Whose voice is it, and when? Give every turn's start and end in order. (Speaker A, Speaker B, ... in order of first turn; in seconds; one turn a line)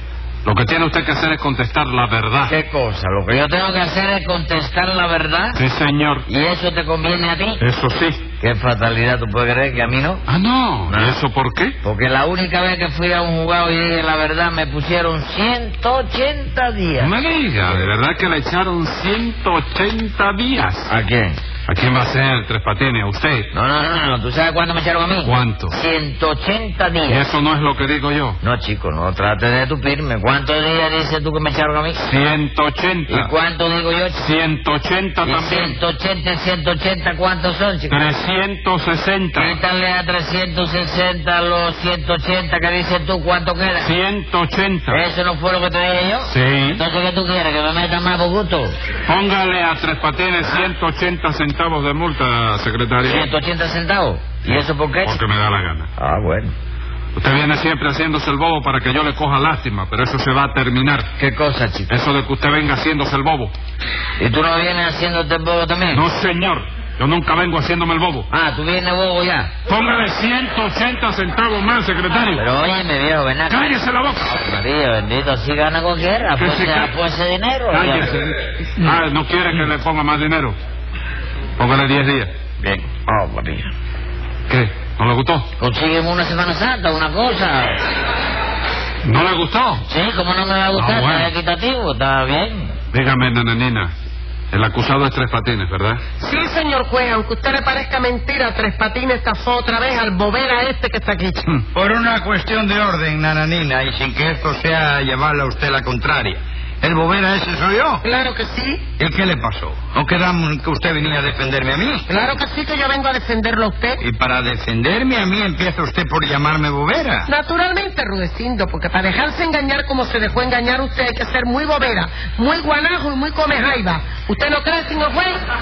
Speaker A: 0.4-2.5
Speaker B: 2.5-5.6
Speaker A: 5.5-6.2
Speaker B: 6.3-7.6
Speaker A: 7.6-8.2
Speaker B: 8.4-10.2
Speaker A: 10.3-11.7
Speaker B: 10.9-11.2
Speaker B: 11.8-17.1
Speaker A: 17.0-20.9
Speaker B: 20.9-21.4
Speaker A: 21.7-23.5
Speaker B: 23.5-27.2
Speaker A: 25.2-25.7
Speaker A: 27.1-28.4
Speaker B: 28.4-32.0
Speaker A: 32.0-33.3
Speaker B: 33.1-34.3
Speaker A: 34.2-35.8
Speaker B: 35.2-38.0
Speaker A: 37.9-39.5
Speaker B: 39.3-43.9
Speaker A: 43.8-45.0
Speaker B: 44.9-48.7
Speaker A: 46.3-46.8
Speaker A: 49.0-53.3
Speaker B: 53.0-55.2
Speaker A: 54.5-55.9
Speaker B: 56.0-56.5
Speaker A: 57.1-61.1
Speaker B: 61.2-61.9
Speaker A: 61.9-63.5
Speaker B: 64.2-66.0
Speaker A: 65.9-68.3
Speaker B: 68.3-69.5
Speaker A: 69.7-72.4
Speaker B: 72.3-78.1
Speaker A: 73.5-74.3
Speaker A: 76.3-76.9
Speaker A: 77.7-80.6
Speaker A: 81.6-82.3
Speaker B: 82.9-83.7
Speaker A: 84.5-85.5
Speaker B: 85.6-87.8
Speaker A: 89.0-89.8
Speaker B: 89.8-92.7
Speaker A: 90.8-91.3
Speaker A: 92.9-93.9
Speaker A: 94.5-96.0
Speaker C: 96.2-101.5
Speaker D: 101.7-108.0
Speaker C: 108.0-108.8
Speaker D: 109.0-112.1
Speaker C: 112.1-114.0
Speaker D: 114.0-117.3
Speaker C: 117.3-125.3